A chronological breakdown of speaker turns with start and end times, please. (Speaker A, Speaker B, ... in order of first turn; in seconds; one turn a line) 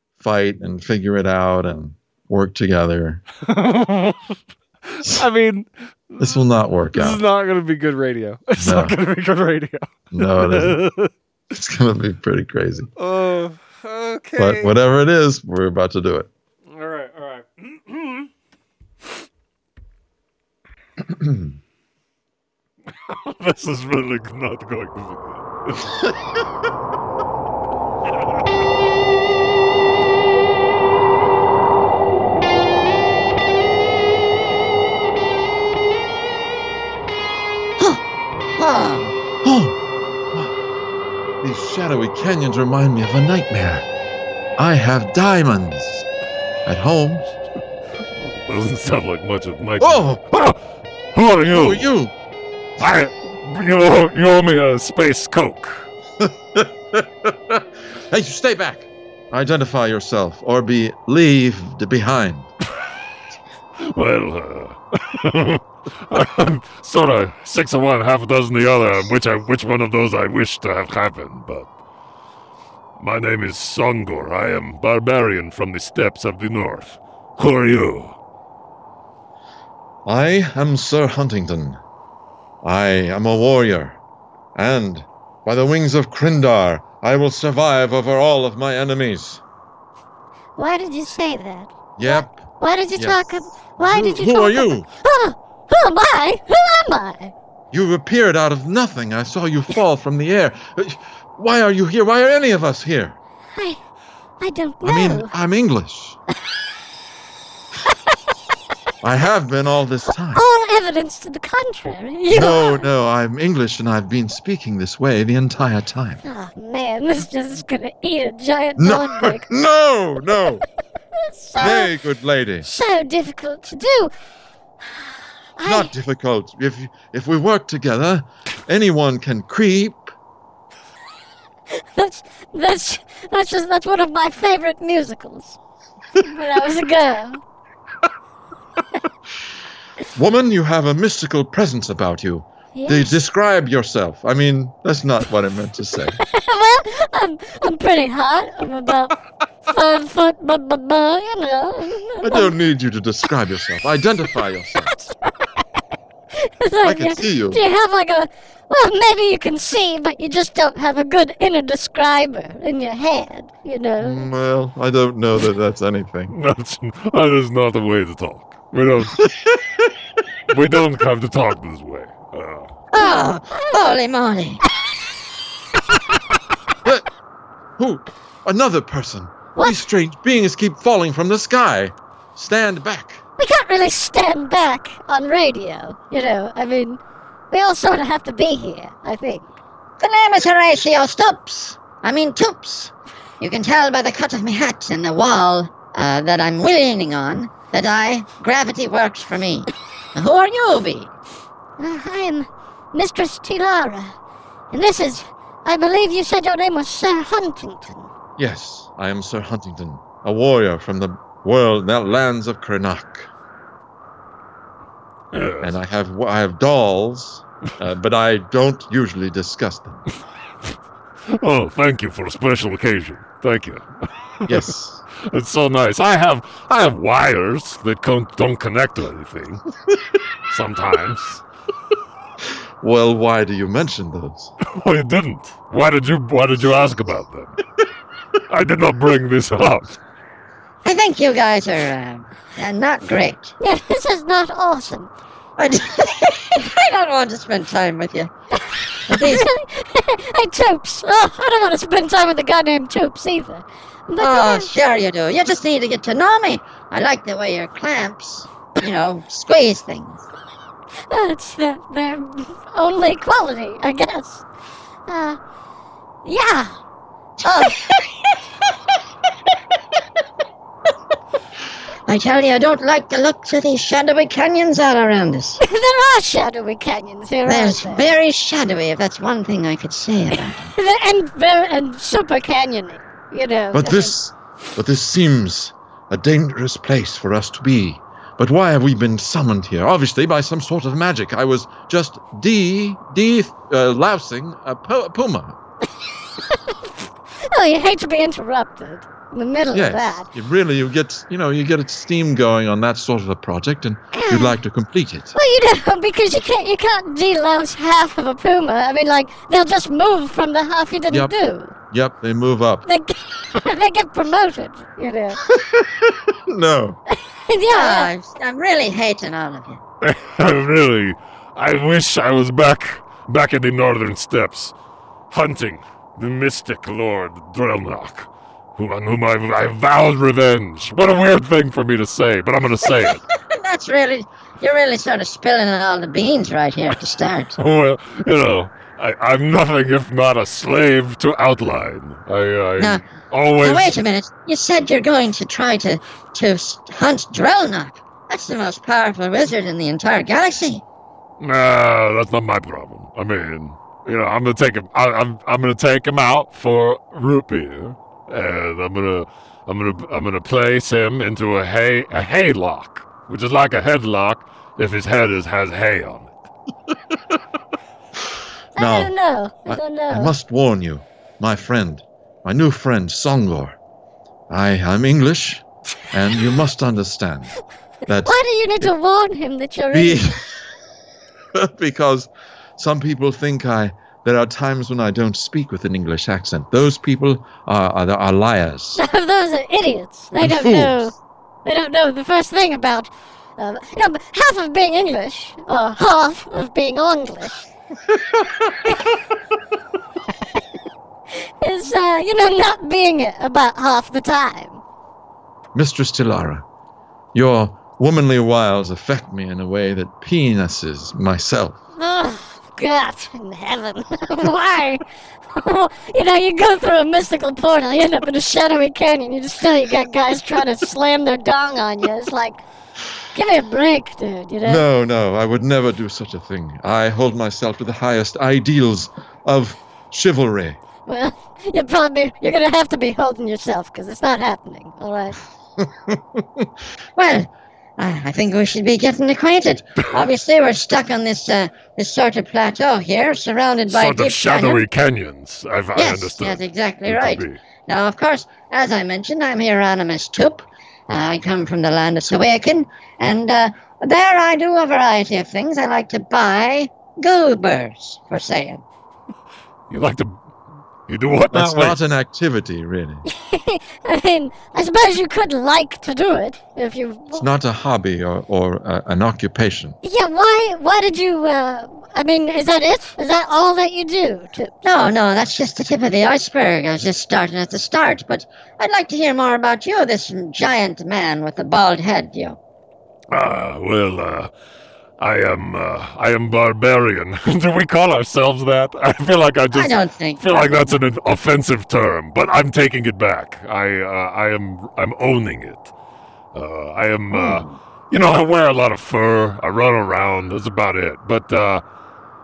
Speaker A: 0.2-3.2
Speaker B: 3.5-4.2
Speaker B: 4.9-6.4
Speaker A: 6.2-7.2
Speaker B: 6.9-11.1
Speaker A: 8.6-9.0
Speaker A: 10.1-10.8
Speaker A: 11.5-12.9
Speaker B: 13.0-14.8
Speaker A: 14.4-16.3
Speaker B: 16.7-18.2
Speaker A: 21.0-21.6
Speaker C: 23.0-25.9
Speaker D: 38.6-39.2
Speaker A: 39.4-39.8
Speaker A: 41.4-43.9
Speaker A: 44.6-46.1
Speaker A: 46.6-47.3
Speaker C: 48.2-50.6
Speaker A: 49.8-50.2
Speaker C: 51.1-51.9
Speaker A: 51.5-52.1
Speaker C: 52.8-55.9
Speaker A: 56.2-62.5
Speaker C: 63.8-71.7
Speaker C: 73.0-78.2
Speaker A: 80.1-81.8
Speaker A: 82.6-84.0
Speaker A: 84.5-89.4
Speaker E: 90.6-97.3
Speaker A: 92.0-92.4
Speaker A: 93.0-94.9
Speaker A: 97.7-103.2
Speaker E: 104.4-105.3
Speaker A: 104.8-106.2
Speaker A: 109.0-110.4
Speaker E: 110.1-112.9
Speaker A: 112.3-116.2
Speaker E: 116.2-119.5
Speaker A: 118.8-120.6
Speaker E: 121.2-122.0
Speaker A: 121.6-122.7
Speaker E: 122.6-124.1
Speaker E: 125.6-125.9
Speaker A: 125.6-130.1
Speaker E: 131.7-135.6
Speaker E: 136.2-137.4
Speaker A: 140.2-146.2
Speaker E: 142.8-143.2
Speaker E: 146.2-152.6
Speaker A: 152.2-154.9
Speaker E: 154.9-155.2
Speaker E: 156.4-164.3
Speaker A: 156.8-157.6
Speaker A: 164.0-166.3
Speaker C: 166.3-169.3
Speaker C: 170.5-172.7
Speaker D: 172.9-174.6
Speaker E: 173.0-173.7
Speaker A: 177.8-183.2
Speaker E: 183.4-187.0
Speaker E: 187.5-189.5
Speaker D: 190.0-201.1
Speaker E: 201.8-204.1
Speaker E: 204.7-208.1
Speaker A: 208.4-213.3
Speaker C: 215.3-215.8
Speaker A: 215.6-220.0
Speaker C: 221.3-223.9
Speaker A: 224.5-225.0
Speaker C: 225.2-229.6
Speaker C: 230.5-231.4
Speaker A: 232.8-234.5
Speaker C: 234.6-237.6
Speaker C: 238.5-240.0
Speaker D: 240.8-243.5
Speaker E: 243.6-245.1
Speaker D: 245.6-248.3
Speaker D: 249.1-249.5
Speaker E: 249.1-254.8
Speaker D: 254.2-260.3
Speaker E: 261.1-264.4
Speaker E: 265.1-265.4
Speaker E: 266.2-266.8
Speaker D: 267.4-268.0
Speaker E: 267.4-267.8
Speaker D: 272.1-275.6
Speaker E: 275.6-278.1
Speaker D: 277.5-280.7
Speaker E: 280.3-284.1
Speaker A: 283.7-295.6
Speaker E: 296.5-296.9
Speaker E: 297.4-300.3
Speaker A: 299.7-305.4
Speaker E: 304.1-304.6
Speaker E: 305.4-311.7
Speaker A: 311.1-311.3
Speaker A: 311.9-312.9
Speaker E: 312.9-315.4
Speaker A: 315.5-317.0
Speaker E: 317.5-318.1
Speaker D: 317.7-319.8
Speaker C: 320.0-324.7
Speaker C: 325.3-333.2
Speaker D: 333.4-337.6
Speaker C: 337.6-344.0
Speaker D: 342.8-343.1
Speaker D: 343.6-350.8
Speaker C: 351.4-366.4
Speaker A: 368.8-369.1
Speaker E: 368.8-370.3
Speaker A: 369.7-373.8
Speaker A: 374.5-377.5
Speaker A: 378.1-378.9
Speaker E: 378.2-380.4
Speaker A: 379.9-380.4
Speaker A: 381.6-389.0
Speaker E: 388.9-397.7
Speaker A: 390.4-391.1
Speaker E: 401.6-404.8
Speaker A: 405.8-406.6
Speaker A: 407.3-411.8
Speaker E: 412.0-415.0
Speaker E: 415.6-422.6
Speaker E: 423.3-424.9
Speaker A: 424.6-430.8
Speaker E: 431.1-435.4
Speaker D: 437.2-444.8
Speaker C: 443.9-447.6
Speaker D: 445.9-458.8
Speaker C: 459.9-460.4
Speaker C: 461.1-462.0
Speaker A: 461.5-463.2
Speaker E: 463.2-467.5
Speaker A: 467.4-470.0
Speaker E: 470.0-474.7
Speaker D: 474.8-482.6
Speaker C: 483.3-484.5
Speaker C: 485.2-495.9
Speaker D: 489.7-490.9
Speaker C: 496.5-501.8
Speaker D: 497.3-497.8